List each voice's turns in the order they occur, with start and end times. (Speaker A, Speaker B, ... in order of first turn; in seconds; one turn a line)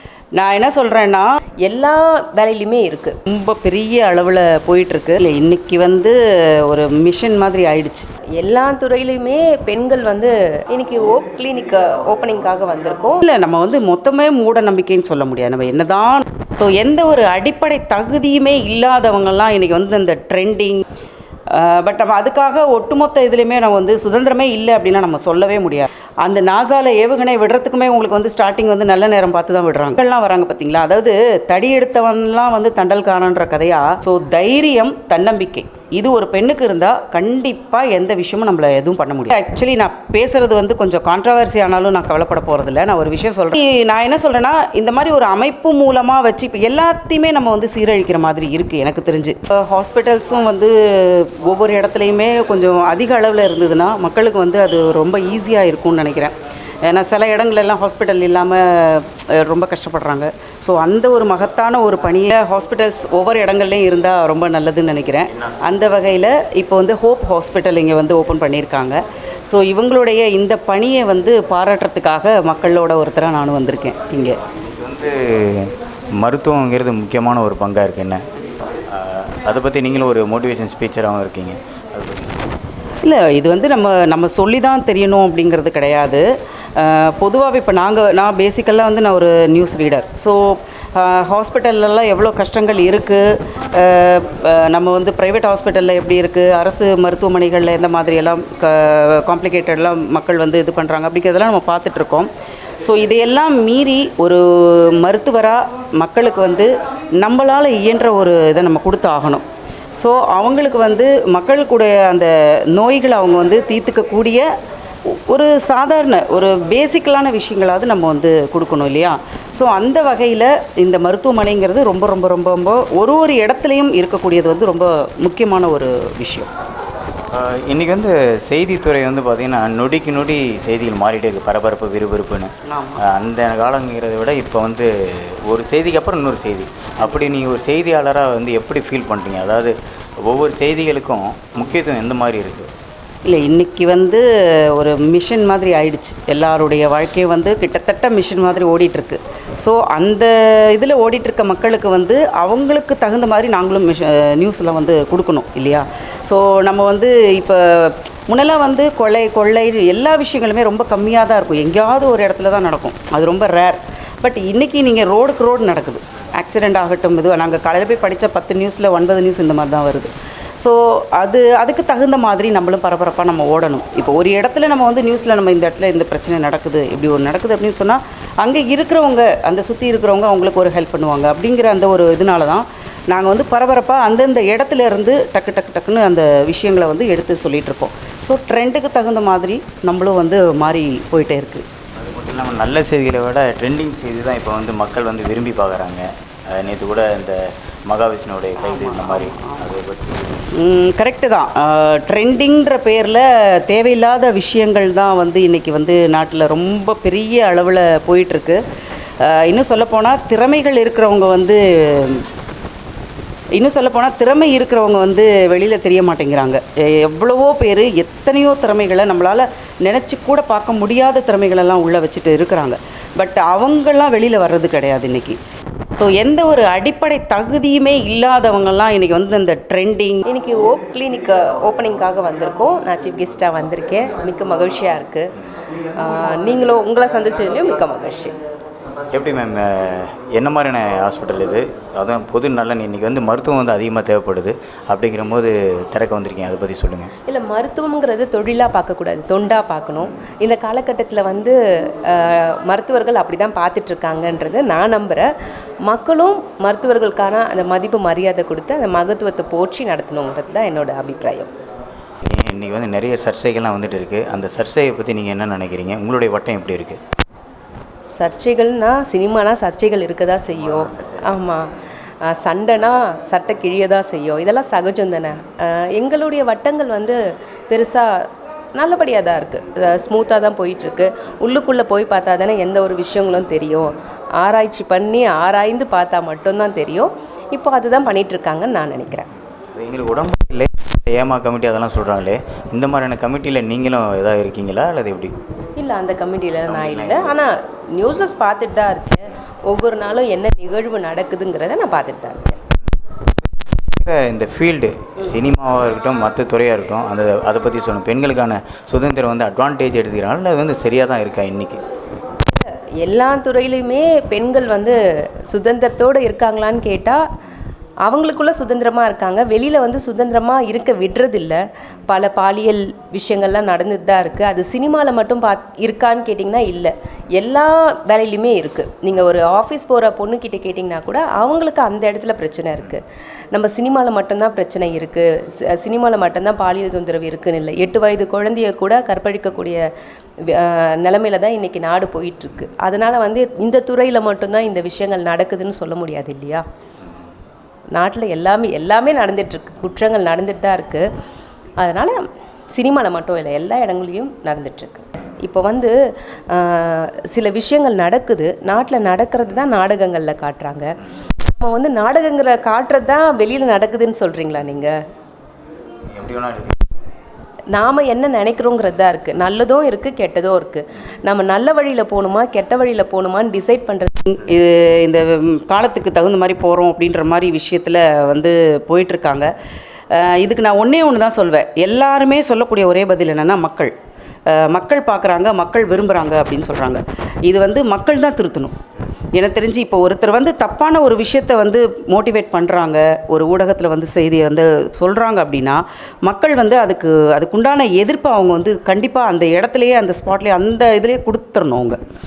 Speaker A: 0.3-1.3
Speaker B: 1.6-3.2
Speaker A: 3.2-8.1
Speaker B: 8.4-13.2
Speaker A: 13.2-20.8
Speaker A: 21.5-74.4
Speaker C: 74.7-78.2
Speaker C: 78.9-82.5
Speaker A: 83.0-86.2
Speaker A: 86.8-102.3
Speaker A: 102.8-106.7
Speaker A: 107.2-109.4
Speaker A: 110.0-114.5
Speaker A: 115.0-126.5
Speaker C: 127.3-142.7
Speaker A: 132.7-133.0
Speaker A: 143.2-191.6
Speaker C: 191.9-200.5
Speaker A: 198.6-199.7
Speaker A: 200.6-208.6
Speaker A: 209.2-212.2
Speaker A: 213.6-225.4
Speaker A: 226.0-230.2
Speaker B: 230.2-235.3
Speaker B: 235.9-238.3
Speaker C: 239.1-247.1
Speaker B: 247.2-255.3
Speaker B: 255.8-261.5
Speaker C: 262.2-267.0
Speaker B: 268.1-271.7
Speaker C: 270.4-271.4
Speaker B: 272.2-277.2
Speaker B: 277.7-289.2
Speaker C: 289.7-295.3
Speaker B: 295.8-302.6
Speaker C: 296.6-297.4
Speaker C: 303.9-311.8
Speaker B: 312.4-314.9
Speaker B: 315.5-317.2
Speaker B: 318.0-339.8
Speaker B: 340.4-346.6
Speaker B: 347.9-351.1
Speaker B: 351.8-352.2
Speaker B: 352.8-355.9
Speaker B: 356.5-360.9
Speaker B: 361.5-364.9
Speaker C: 366.1-366.9
Speaker B: 367.7-374.1
Speaker A: 374.2-379.5
Speaker A: 380.1-383.9
Speaker A: 384.5-388.8
Speaker A: 389.3-402.0